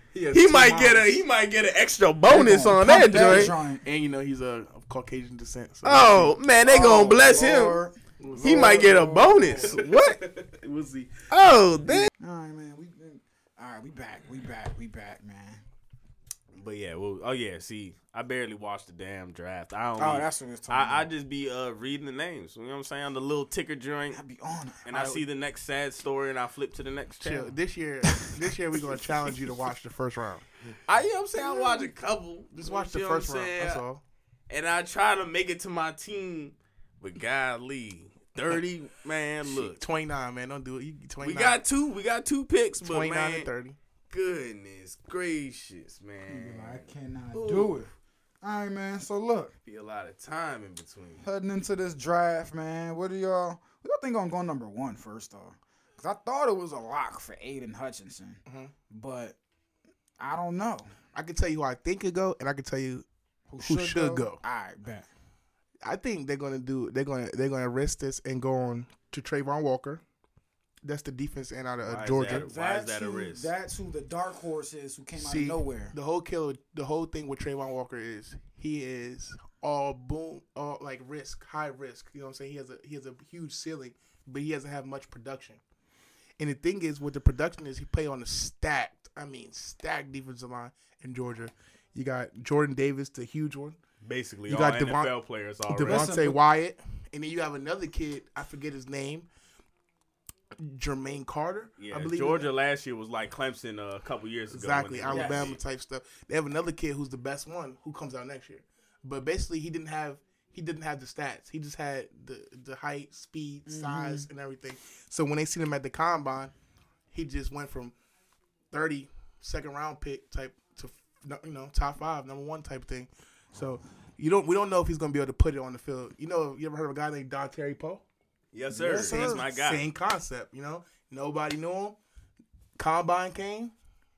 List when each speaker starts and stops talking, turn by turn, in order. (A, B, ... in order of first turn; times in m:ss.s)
0:00.1-0:01.0 A
0:00.3-0:03.6 B
0:02.3-0:03.8 C
0:03.3-0:06.4 A
0:05.8-0:07.8 B
0:06.7-0:09.8 C
0:08.2-0:11.3 A
0:08.4-0:10.2 B
0:11.3-0:12.1 B
0:12.2-0:15.6 C
0:16.5-0:24.2 B
0:20.0-0:21.1 C
0:24.1-0:25.2 C
0:24.9-0:27.5 B
0:27.2-0:30.5 A
0:30.9-0:33.8 B
0:31.4-0:31.8 A
0:32.6-0:34.0 A
0:34.5-0:39.8 B
0:39.4-0:41.6 A
0:41.2-0:43.5 B
0:42.8-0:43.8 A
0:44.1-0:47.8 B
0:46.3-0:47.9 C
0:48.4-0:49.6 C
0:49.7-0:51.2 B
0:51.2-0:59.4 C
0:58.5-0:58.7 A
1:00.2-1:00.9 C
1:01.1-1:03.0 A
1:03.5-1:05.1 C
1:03.6-1:04.4 A
1:05.8-1:10.0 A
1:10.8-1:12.5 A
1:11.8-1:13.5 B
1:12.2-1:16.0 C
1:15.2-1:25.6 A
1:26.4-1:33.8 A
1:34.0-1:36.2 B
1:34.5-1:35.1 A
1:35.7-1:39.3 A
1:35.8-1:36.4 C
1:40.6-1:42.5 A
1:41.8-1:45.6 B
1:44.5-1:56.5 A
1:45.1-1:45.5 C
1:53.7-1:54.3 C
1:57.1-1:58.0 A
1:58.7-2:08.0 A
2:08.5-2:09.8 B
2:08.7-2:09.4 C
2:09.0-2:12.0 A
2:12.8-2:13.7 A